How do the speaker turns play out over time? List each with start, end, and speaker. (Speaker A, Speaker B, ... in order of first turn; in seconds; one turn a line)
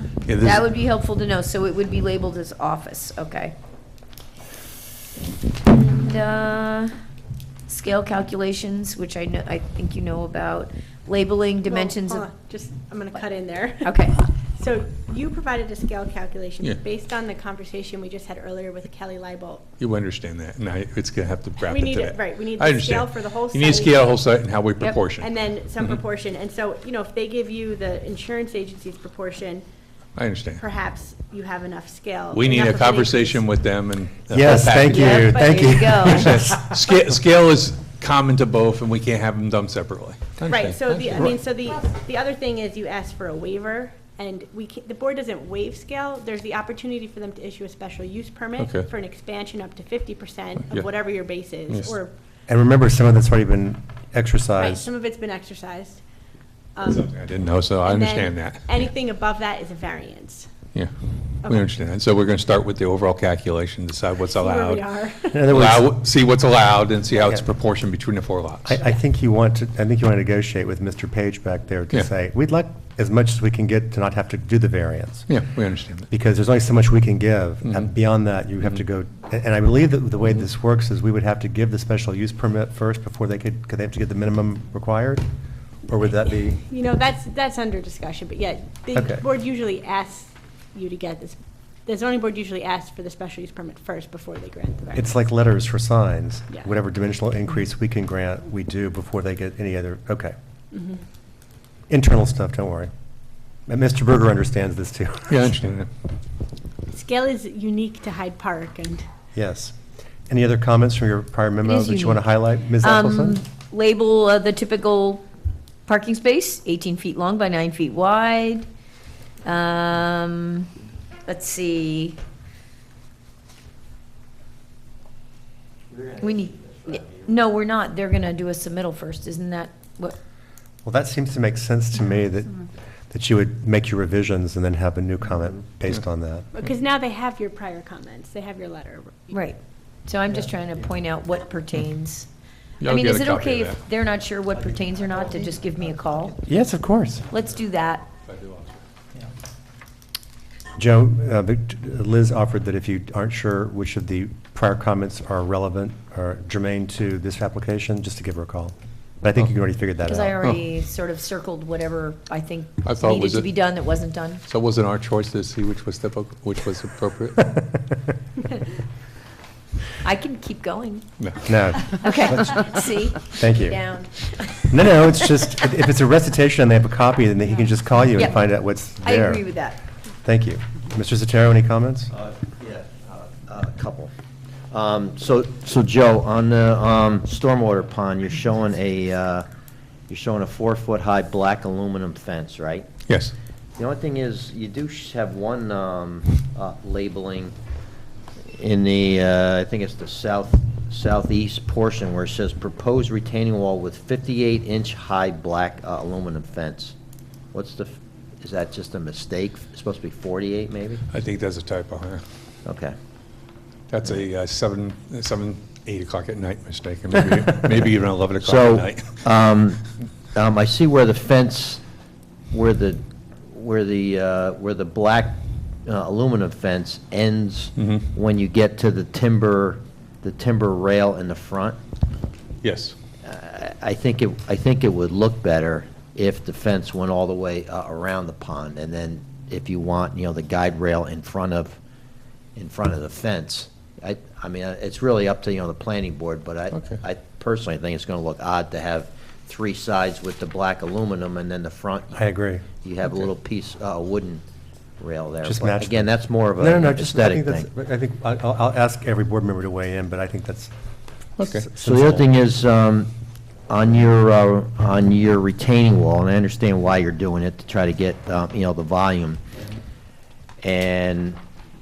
Speaker A: 0.2-0.7
Speaker B: 0.3-3.5
Speaker B: 5.7-6.9
Speaker B: 7.7-12.2
Speaker C: 11.6-13.8
Speaker B: 13.8-14.2
Speaker C: 14.6-19.7
Speaker A: 19.8-26.0
Speaker C: 21.6-24.1
Speaker C: 25.2-29.6
Speaker A: 30.1-30.6
Speaker C: 30.6-33.4
Speaker A: 32.3-41.3
Speaker D: 34.3-36.7
Speaker B: 34.7-36.5
Speaker C: 35.3-35.6
Speaker C: 40.5-52.1
Speaker A: 48.6-48.9
Speaker A: 51.7-51.9
Speaker D: 52.5-54.9
Speaker C: 54.6-56.0
Speaker C: 56.8-57.1
Speaker A: 56.8-58.9
Speaker C: 57.8-60.5
Speaker A: 61.4-68.8
Speaker C: 61.4-61.7
Speaker C: 64.3-65.4
Speaker D: 65.3-65.9
Speaker D: 67.1-67.4
Speaker D: 68.6-75.4
Speaker A: 75.3-76.1
Speaker D: 76.1-85.2
Speaker A: 77.6-77.9
Speaker D: 85.8-86.6
Speaker C: 86.7-95.1
Speaker D: 88.9-89.2
Speaker D: 94.9-100.3
Speaker C: 100.7-101.0
Speaker D: 101.9-102.9
Speaker D: 103.7-105.5
Speaker A: 105.3-105.9
Speaker C: 106.9-109.0
Speaker D: 109.3-109.7
Speaker D: 110.3-113.4
Speaker B: 111.6-115.2
Speaker B: 115.8-118.7
Speaker B: 119.4-120.7
Speaker B: 121.2-122.2
Speaker E: 125.9-127.3
Speaker B: 126.2-130.2
Speaker D: 130.8-136.5
Speaker C: 136.5-139.4
Speaker B: 139.3-142.3
Speaker A: 142.8-143.8
Speaker B: 142.8-146.4
Speaker D: 146.4-147.2
Speaker B: 147.3-148.0
Speaker A: 148.2-148.8
Speaker D: 150.8-160.3
Speaker B: 160.0-164.4
Speaker A: 162.8-163.5
Speaker A: 164.4-167.5
Speaker D: 167.4-167.8
Speaker B: 170.0-171.0
Speaker D: 171.4-172.7
Speaker B: 171.7-175.4
Speaker D: 173.3-173.8
Speaker D: 174.7-179.4
Speaker B: 178.1-178.4
Speaker B: 179.0-179.8
Speaker D: 180.2-182.1
Speaker E: 182.1-184.1
Speaker E: 184.7-189.5
Speaker E: 190.1-192.9
Speaker A: 193.1-193.3
Speaker E: 193.8-197.5
Speaker E: 198.4-206.9
Speaker E: 207.5-211.0
Speaker A: 211.1-212.2
Speaker E: 212.6-212.9
Speaker A: 213.9-219.2
Speaker E: 218.4-221.8
Speaker E: 222.5-231.8
Speaker A: 227.8-228.1
Speaker A: 232.6-232.9
Speaker E: 233.2-241.8
Speaker E: 242.6-252.2
Speaker A: 246.7-247.0
Speaker D: 252.1-252.7
Speaker E: 252.8-254.4
Speaker E: 255.0-257.7
Speaker D: 255.4-260.7
Speaker A: 261.4-261.7
Speaker D: 261.4-262.3
Speaker E: 261.7-263.1
Speaker E: 263.7-269.4
Speaker E: 270.6-271.4